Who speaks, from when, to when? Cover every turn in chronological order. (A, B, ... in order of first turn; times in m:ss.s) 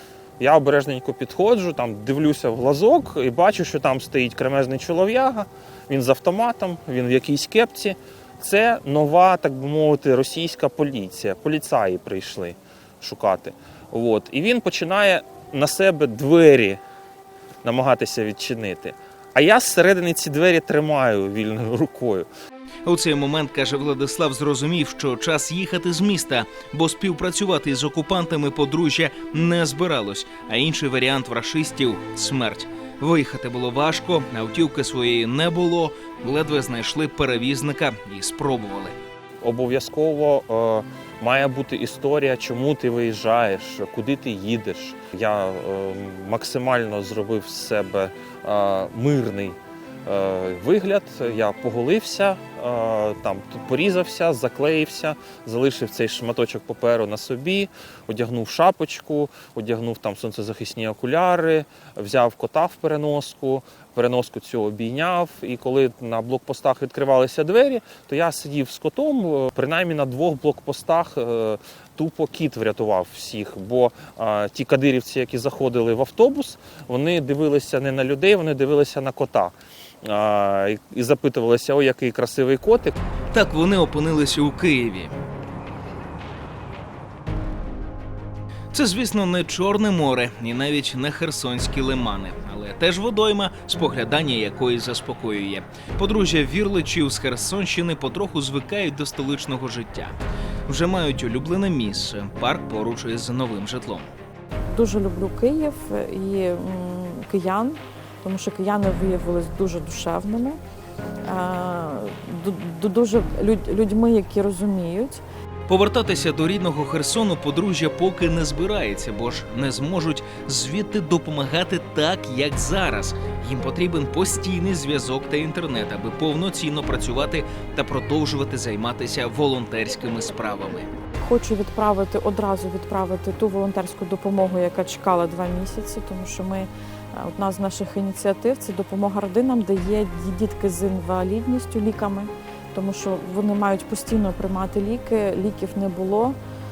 0:00.4-0:16.8 A
0:17.6-0:22.3 A
0:22.8-0:39.0 B
0:39.4-1:22.9 A
1:23.3-1:25.2 B
1:28.7-1:40.1 B
1:40.7-1:44.1 B
1:44.7-1:50.6 C
1:51.2-1:55.2 C
1:55.7-2:10.9 B
2:11.2-2:26.4 C